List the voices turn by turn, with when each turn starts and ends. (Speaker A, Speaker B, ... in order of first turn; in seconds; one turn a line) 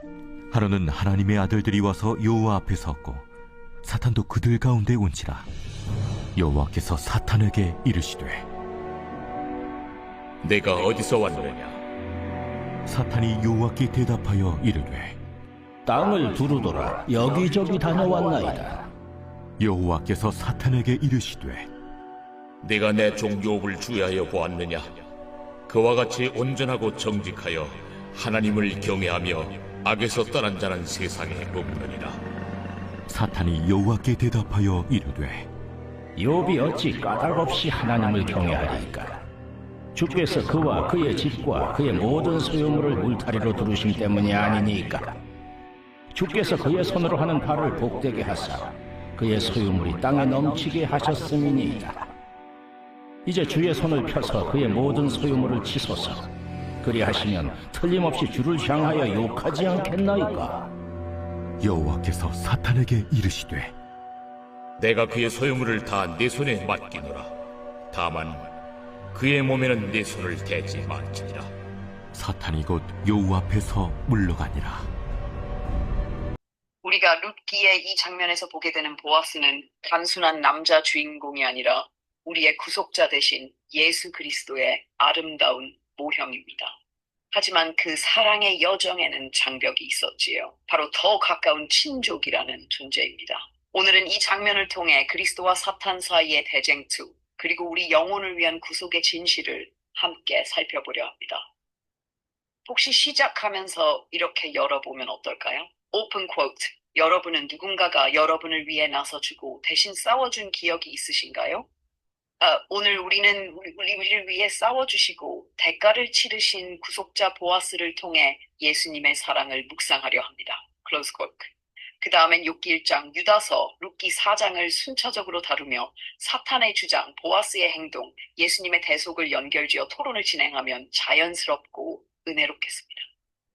Speaker A: 0.5-3.3
Speaker A: 3.8-5.5
Speaker A: 6.3-8.4
Speaker B: 10.4-11.8
Speaker A: 12.8-15.2
Speaker C: 15.8-18.8
Speaker A: 19.6-21.7
Speaker B: 22.6-24.9
Speaker B: 25.7-32.2
Speaker A: 33.1-35.5
Speaker C: 36.1-39.2
Speaker C: 39.9-45.2
Speaker C: 46.1-52.0
Speaker C: 53.2-56.3
Speaker C: 56.8-60.7
Speaker A: 61.6-63.7
Speaker B: 64.8-67.3
Speaker B: 67.9-68.5
Speaker B: 69.1-71.5
Speaker A: 72.1-74.9
Speaker D: 76.8-86.8
Speaker D: 87.3-101.5
Speaker D: 102.7-111.7
Speaker D: 112.4-121.5
Speaker D: 122.0-133.1